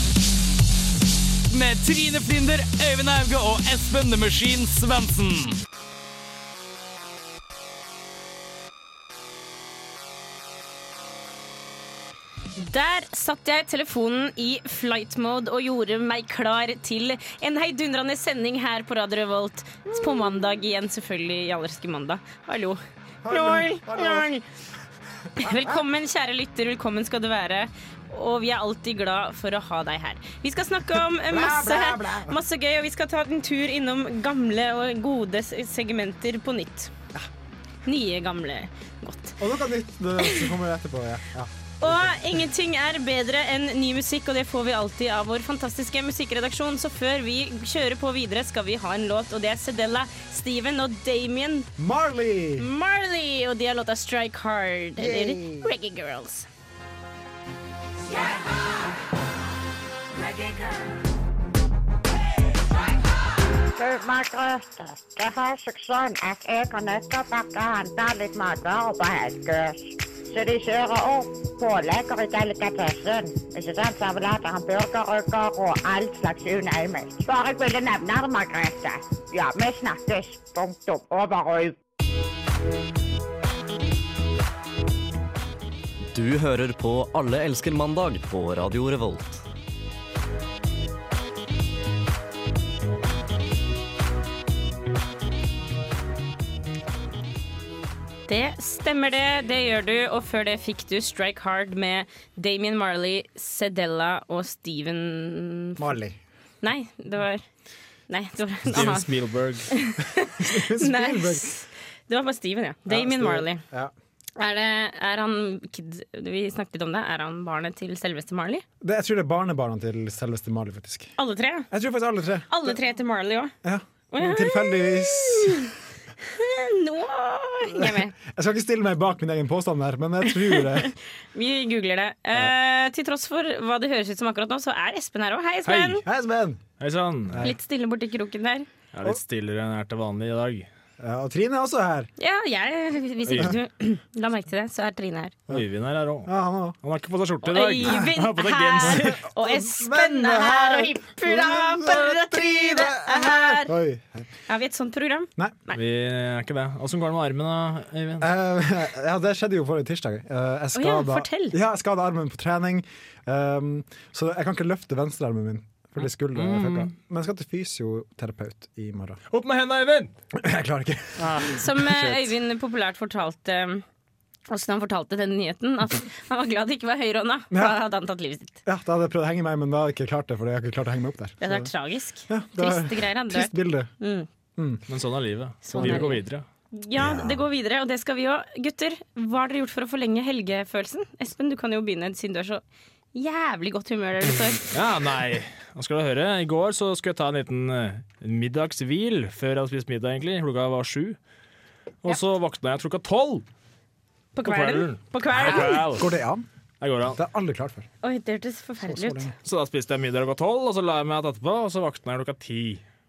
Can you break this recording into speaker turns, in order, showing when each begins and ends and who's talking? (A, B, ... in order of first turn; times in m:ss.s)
0:01.5-0:05.6 A
0:12.6-0:24.4 B
0:23.2-0:24.3 C
0:25.4-0:25.8 C
0:25.4-0:36.9 B
0:31.2-0:32.4 C
0:37.9-0:39.4 B
0:39.4-0:42.1 C
0:40.2-0:40.5 B
0:41.8-0:51.7 B
0:51.8-0:52.7 C
0:52.6-0:56.5 B
0:55.0-0:55.6 C
1:03.7-1:21.8 D
1:26.1-1:29.4 E
1:38.3-1:46.0 B
1:45.8-1:46.2 C
1:46.6-1:47.4 B
1:48.1-1:49.1 B
1:48.7-1:49.7 F
1:49.7-1:53.6 B
1:50.3-1:51.6 C
1:52.9-1:53.9 C
1:54.4-1:58.6 B
1:58.8-2:01.2 C
2:01.2-2:01.7 B
2:01.7-2:02.8 C
2:02.5-2:03.5 B
2:03.6-2:05.7 C
2:04.1-2:08.1 B
2:07.7-2:10.9 C
2:10.4-2:16.0 B
2:15.7-2:16.0 F
2:16.0-2:16.6 C
2:16.8-2:17.5 F
2:17.4-2:18.7 B
2:18.9-2:20.7 F
2:21.0-2:22.1 C
2:22.2-2:25.4 B
2:23.2-2:23.6 F
2:25.5-2:26.3 F
2:26.2-2:26.8 C
2:26.8-2:29.1 F
2:27.4-2:33.7 B
2:27.8-2:28.1 C
2:28.8-2:34.3 C
2:34.5-2:35.8 B
2:35.4-2:35.6 C
2:35.7-2:38.3 F
2:38.2-2:49.2 C
2:40.7-2:41.6 B
2:46.3-2:46.9 F
2:49.3-2:50.1 F
2:50.4-2:52.3 C
2:51.2-2:51.6 F
2:51.5-2:53.8 B
2:54.5-2:58.6 B
2:57.5-2:57.8 C
2:58.6-3:01.7 C
3:01.4-3:04.3 B
3:02.3-3:03.9 C
3:04.6-3:04.8 C
3:04.9-3:06.4 F
3:05.6-3:12.6 B
3:05.7-3:06.1 C
3:07.0-3:07.4 C
3:13.1-3:14.7 B
3:14.7-3:21.2 F
3:22.0-3:23.4 F
3:24.4-3:25.9 B
3:24.4-3:26.1 F
3:25.4-3:26.5 C
3:26.8-3:27.2 F
3:27.1-3:27.9 C
3:28.0-3:29.3 B
3:28.8-3:29.3 C
3:29.4-3:32.8 F